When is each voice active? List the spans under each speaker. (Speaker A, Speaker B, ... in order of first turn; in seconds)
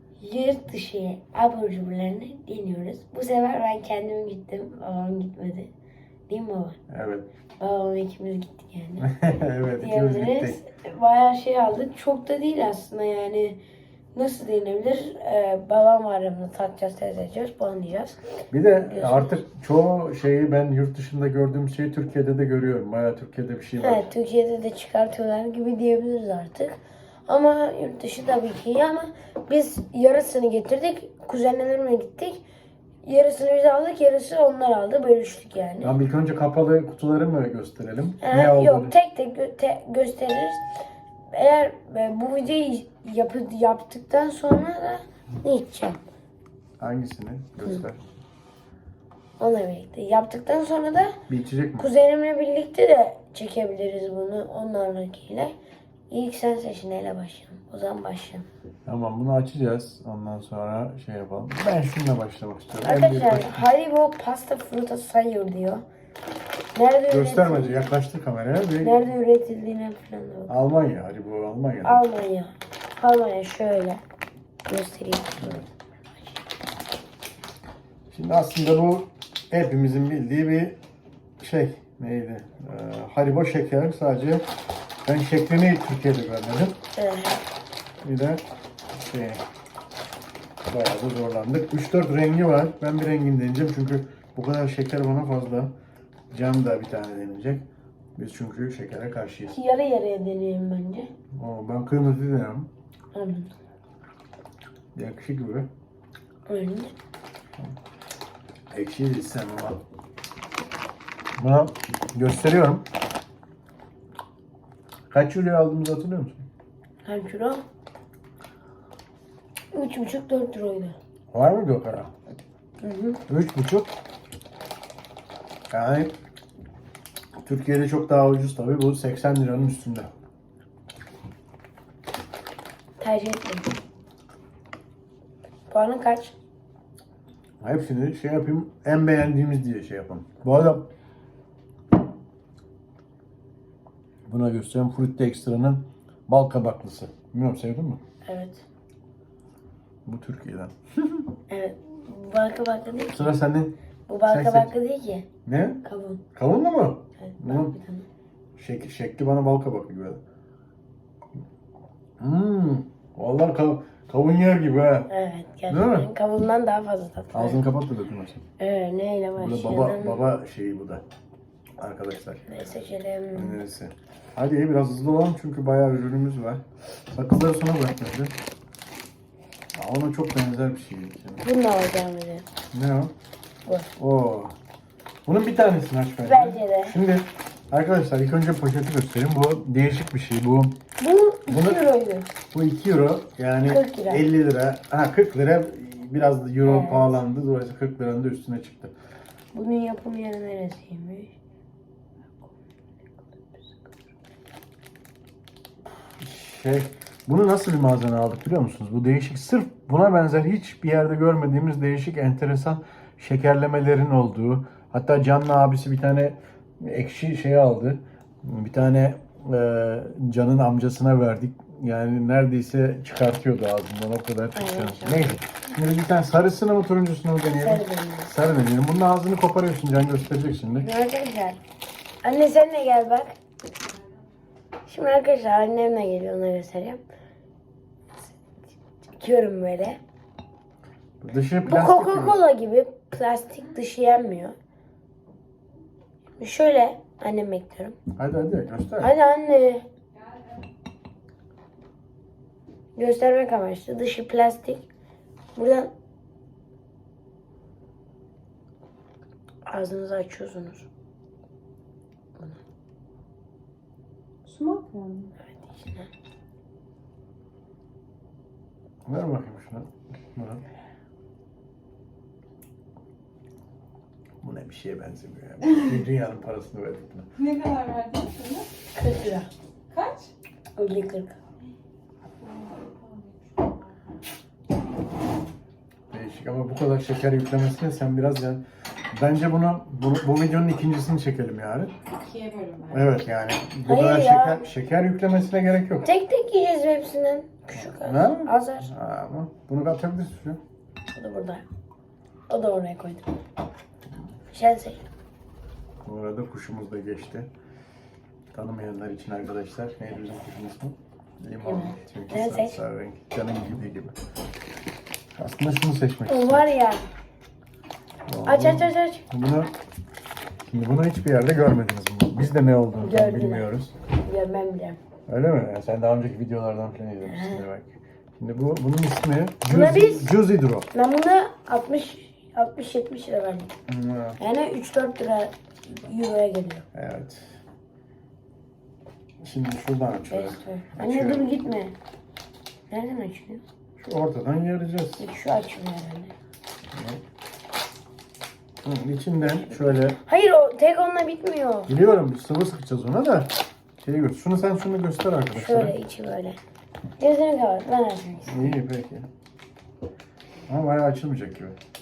Speaker A: 0.2-5.7, 6.3-6.8, 7.6-9.1, 9.8-13.6, 14.1-18.2, 18.9-19.4, 23.8-32.4, 33.0-35.9, 38.2-40.6, 41.3-46.0, 49.4-51.2, 51.8-55.5, 56.1-58.5, 62.8-65.8, 66.7-67.9, 68.8-70.5, 71.8-74.0, 74.7-75.4, 87.0-87.4, 99.5-101.1, 103.1-103.5, 106.5-106.9, 117.0-117.6, 119.7-121.0, 122.8-123.2, 133.0-133.7, 135.7-136.3, 148.2-148.6, 151.5-153.3, 154.1-155.3, 155.8-156.2, 157.2-158.1, 165.1-167.6, 168.6-170.2, 172.5-173.6, 181.4-182.4, 183.7-183.9, 186.2-187.0, 191.0-192.3, 193.7-194.2, 196.6-197.2, 199.5-201.3, 224.5-225.4, 227.6-228.3, 230.8-231.6, 232.2-233.3, 234.8-237.0, 239.1-240.0, 241.6-244.5, 246.4-248.0, 249.0-249.8, 252.9-254.8, 255.6-255.9, 259.6-260.9, 265.5-266.1, 278.9-279.5, 280.8-281.4, 293.8-294.6, 296.0-298.9, 301.1-301.6, 302.5-303.3, 304.5-305.0, 311.6-312.8, 316.3-317.0, 318.4-319.2, 323.0-323.7, 324.2-325.0, 327.2-327.6, 329.6-330.4, 330.9-333.7, 334.4-336.9, 340.3-341.9, 342.9-343.6, 345.2-346.3, 350.2-351.9, 355.5-356.6, 357.2-358.7
Speaker B: 6.9-7.3, 9.0-10.6, 18.5-24.1, 35.8-38.9, 46.8-48.0, 51.3-51.9, 58.9-63.6, 67.1-69.0, 70.5-72.0, 75.4-75.7, 78.1-80.8, 81.4-84.5, 85.0-86.8, 88.0-88.4, 89.0-89.4, 90.7-95.7, 96.3-99.5, 101.3-102.7, 104.9-105.7, 108.7-109.8, 111.4-112.8, 115.1-116.4, 121.3-122.1, 123.3-123.9, 125.7-126.1, 127.4-130.1, 137.6-140.9, 144.3-148.0, 150.1-151.3, 153.1-153.7, 154.3-154.7, 155.4-155.8, 156.3-157.7, 158.6-160.2, 162.2-165.1, 165.7-166.1, 167.3-168.4, 169.4-171.0, 171.8-172.5, 173.3-178.3, 179.7-181.4, 182.7-183.1, 184.0-184.5, 185.2-190.8, 191.5-191.8, 192.5-198.9, 206.1-230.9, 241.2-242.4, 248.2-249.1, 269.0-270.6, 274.4-277.3, 286.1-291.9, 292.9-296.1, 297.8-300.6, 306.0-307.5, 308.5-314.2, 315.3-316.7, 318.3-319.7, 320.6-323.9, 325.3-330.9, 333.9-334.4, 336.9-337.6, 339.4-341.5, 344.0-345.2, 346.9-347.2, 348.8-350.2, 351.9-355.9, 358.4-359.3, 360.7-361.8
Speaker C: 264.4-265.3, 277.4-278.7, 279.9-280.3, 282.4-283.4, 292.2-293.0